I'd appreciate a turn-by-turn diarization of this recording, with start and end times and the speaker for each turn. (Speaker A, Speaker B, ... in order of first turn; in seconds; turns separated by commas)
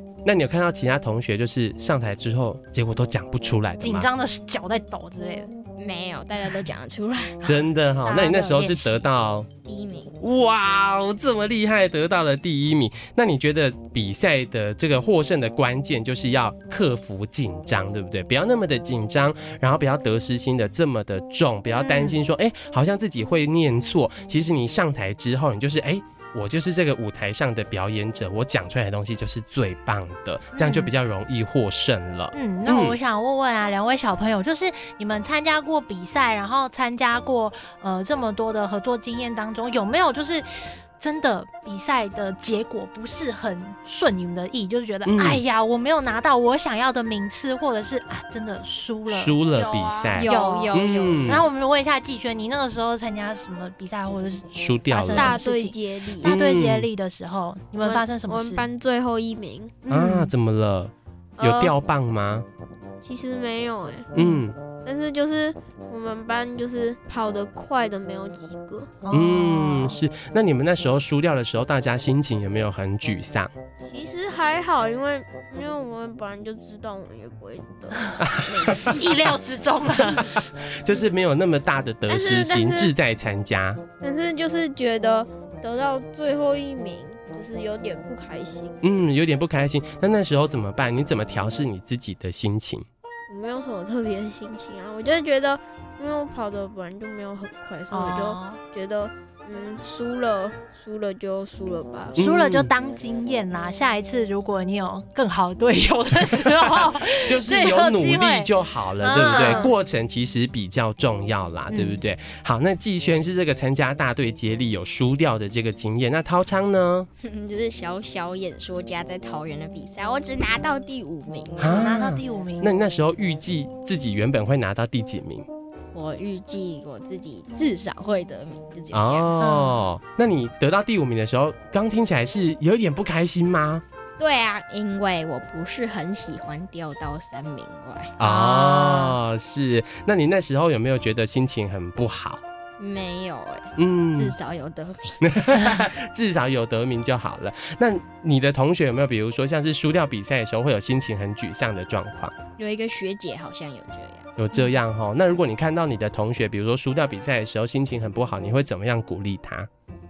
Speaker A: 0.2-4.1, Speaker B: 3.8-5.5, Speaker C: 5.8-7.4, Speaker B: 7.4-9.1, Speaker A: 7.5-9.5, Speaker C: 9.7-10.1, Speaker A: 10.2-33.0, Speaker B: 21.8-22.2, Speaker B: 30.6-30.9, Speaker B: 32.3-40.5, Speaker B: 41.0-49.4, Speaker A: 45.1-45.4, Speaker A: 49.1-51.5, Speaker D: 49.5-50.3, Speaker C: 50.1-51.4, Speaker B: 50.2-58.7, Speaker A: 54.5-55.4, Speaker D: 55.1-56.3, Speaker A: 56.2-56.9, Speaker D: 57.8-59.8, Speaker B: 59.9-60.3, Speaker A: 59.9-62.5, Speaker D: 61.4-61.8, Speaker D: 63.0-64.1, Speaker A: 64.1-64.6, Speaker B: 64.2-64.4, Speaker D: 64.8-68.9, Speaker B: 69.0-70.0, Speaker A: 69.1-73.5, Speaker D: 73.9-79.0, Speaker A: 78.2-79.1, Speaker B: 78.8-80.4, Speaker A: 80.0-83.8, Speaker D: 82.1-82.9, Speaker D: 84.0-88.8, Speaker A: 88.8-92.9, Speaker D: 93.3-102.2, Speaker B: 97.9-98.6, Speaker A: 102.2-102.7, Speaker B: 102.2-109.8, Speaker A: 106.6-117.1, Speaker B: 111.7-112.0, Speaker C: 117.2-121.9, Speaker B: 121.6-122.8, Speaker A: 121.6-125.5, Speaker C: 125.9-129.3, Speaker A: 128.9-133.8, Speaker B: 129.4-129.9, Speaker C: 134.2-139.2, Speaker A: 138.2-142.4, Speaker C: 142.8-145.2, Speaker A: 143.8-144.4, Speaker A: 145.2-152.3, Speaker C: 152.6-154.3, Speaker A: 154.4-159.7